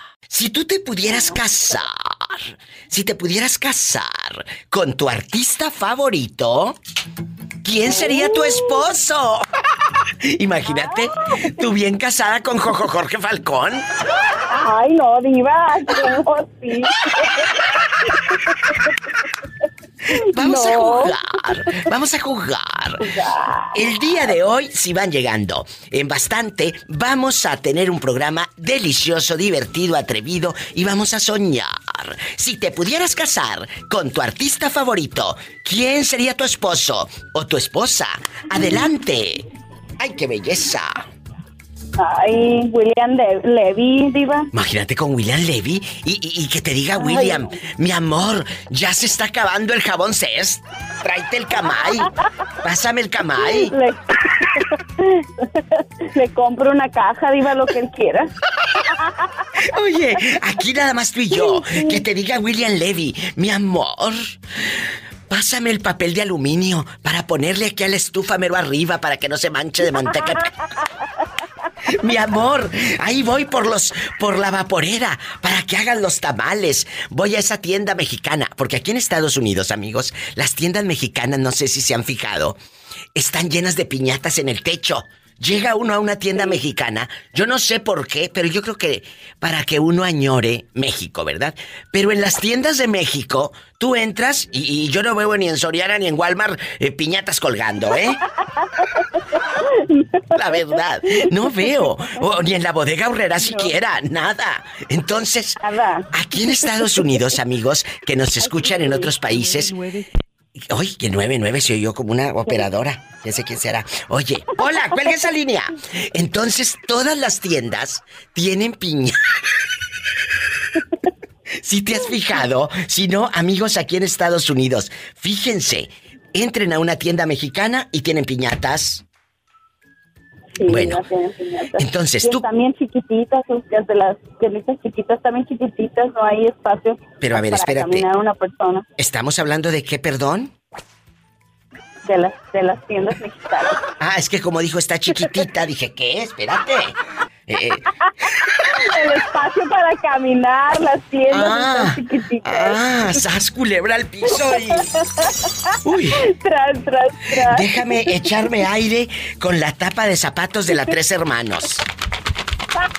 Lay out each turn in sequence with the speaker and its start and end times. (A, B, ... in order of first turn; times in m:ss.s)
0:00.3-0:06.8 A
0:07.6-0:09.4 A
0:07.9-0:08.7 B
0:10.2-0:13.8 A
0:14.5-0:17.4 B
0:20.1-0:21.2 B
0:20.2-0:23.0 A
0:23.0-0:23.8 B
0:23.7-0:39.5 A
0:40.0-0:41.1 A
0:42.0-0:44.5 B
0:44.5-0:53.8 A
0:47.0-0:47.5 B
0:53.4-0:54.6 B
0:56.1-0:58.3 B
0:59.6-1:10.5 A
1:01.4-1:02.0 B
1:11.9-1:22.6 A
1:23.2-1:38.2 A
1:40.0-1:40.2 B
1:40.3-1:45.6 A
1:43.4-1:43.7 B
1:45.6-1:46.1 B
1:46.1-1:49.8 A
1:46.6-1:47.1 B
1:48.4-1:49.1 B
1:50.6-1:59.2 A
2:01.6-2:09.0 A
2:10.6-2:18.9 B
2:10.7-2:11.1 A
2:11.8-2:12.5 A
2:17.2-2:18.1 A
2:19.0-2:20.5 A
2:22.0-2:23.8 B
2:24.0-2:27.0 A
2:27.5-2:27.8 A
2:28.7-2:32.8 B
2:31.3-2:34.9 A
2:34.3-2:38.1 B
2:35.8-2:36.2 A
2:37.4-2:41.9 A